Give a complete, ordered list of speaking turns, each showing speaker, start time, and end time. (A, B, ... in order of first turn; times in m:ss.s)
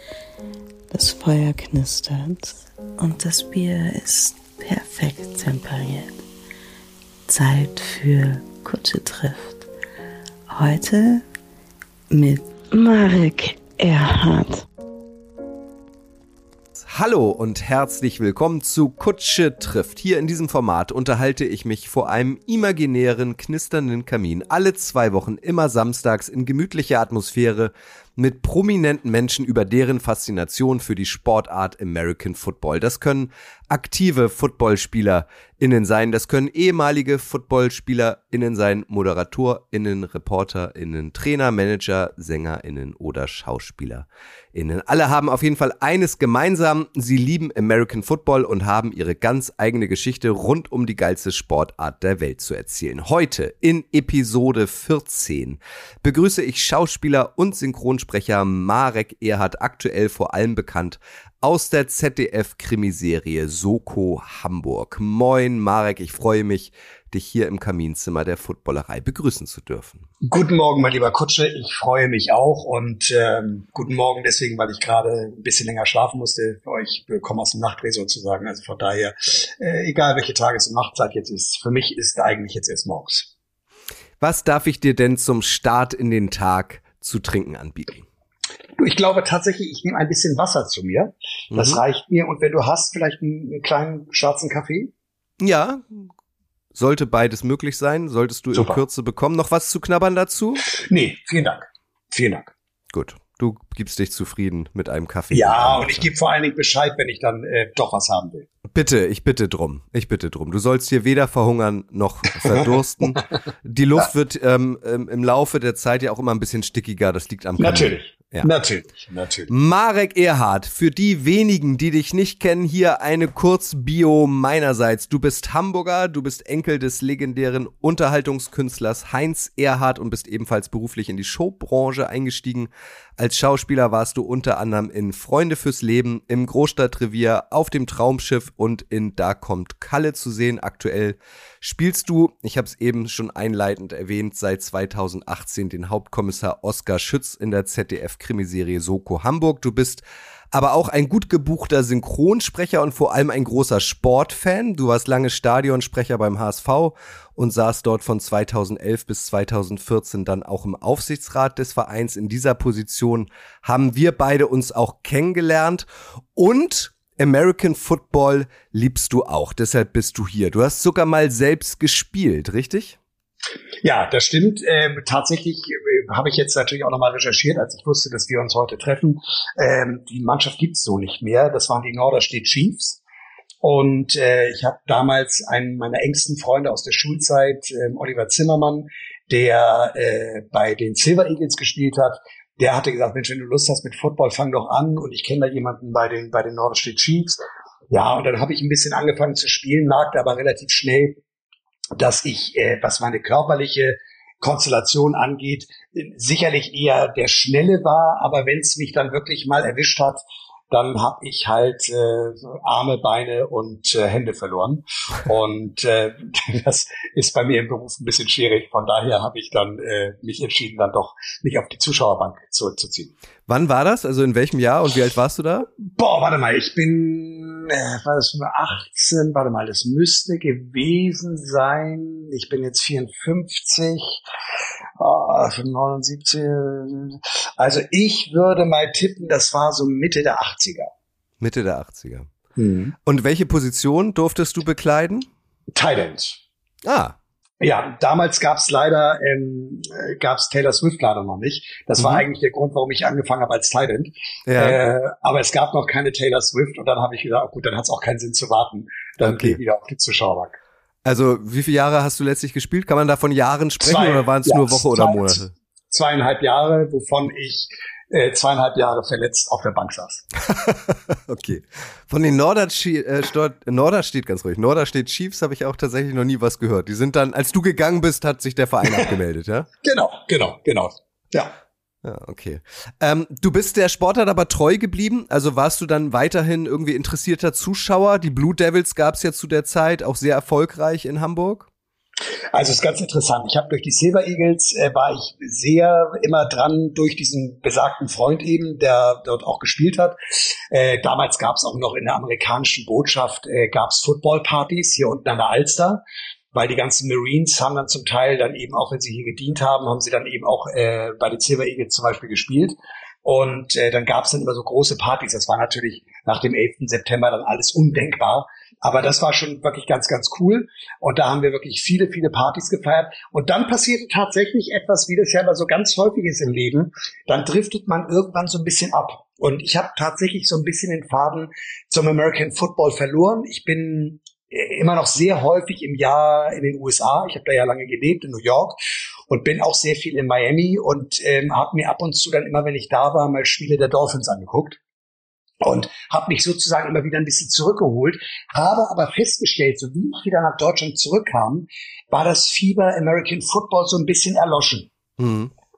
0:00.9-0:06.1 A
0:07.3-0:09.6 A
0:10.5-0:11.2 A
0:12.1-0:14.7 A
0:16.8-1:10.0 B
1:10.2-1:23.3 C
1:24.2-1:28.1 B
1:28.8-1:34.9 C
1:31.5-1:31.8 B
1:35.4-1:36.1 B
1:36.8-1:40.6 B
1:38.5-1:38.8 C
1:40.7-1:42.5 C
1:42.9-1:46.1 B
1:45.3-1:48.5 C
1:48.7-1:58.5 B
1:57.6-1:59.5 C
1:59.5-2:53.0 B
2:53.8-3:03.0 C
3:03.6-3:17.4 C
3:17.9-3:21.2 C
3:22.0-3:43.1 C
3:43.5-3:45.7 B
3:45.9-3:54.2 C
3:55.0-4:00.9 C
4:01.4-4:02.3 B
4:02.6-4:03.0 C
4:03.0-4:05.3 B
4:05.8-4:06.4 C
4:06.8-4:07.2 B
4:07.6-4:20.6 C
4:12.0-4:12.2 B
4:14.5-4:14.8 B
4:19.2-4:19.6 B
4:21.0-4:25.5 B
4:23.8-4:30.3 C
4:30.5-4:39.7 B
4:39.8-4:41.6 C
4:42.0-4:51.7 B
4:52.5-5:06.0 C
5:06.5-5:38.8 C
5:39.3-5:44.8 C
5:45.6-5:54.9 C
5:55.2-5:55.5 B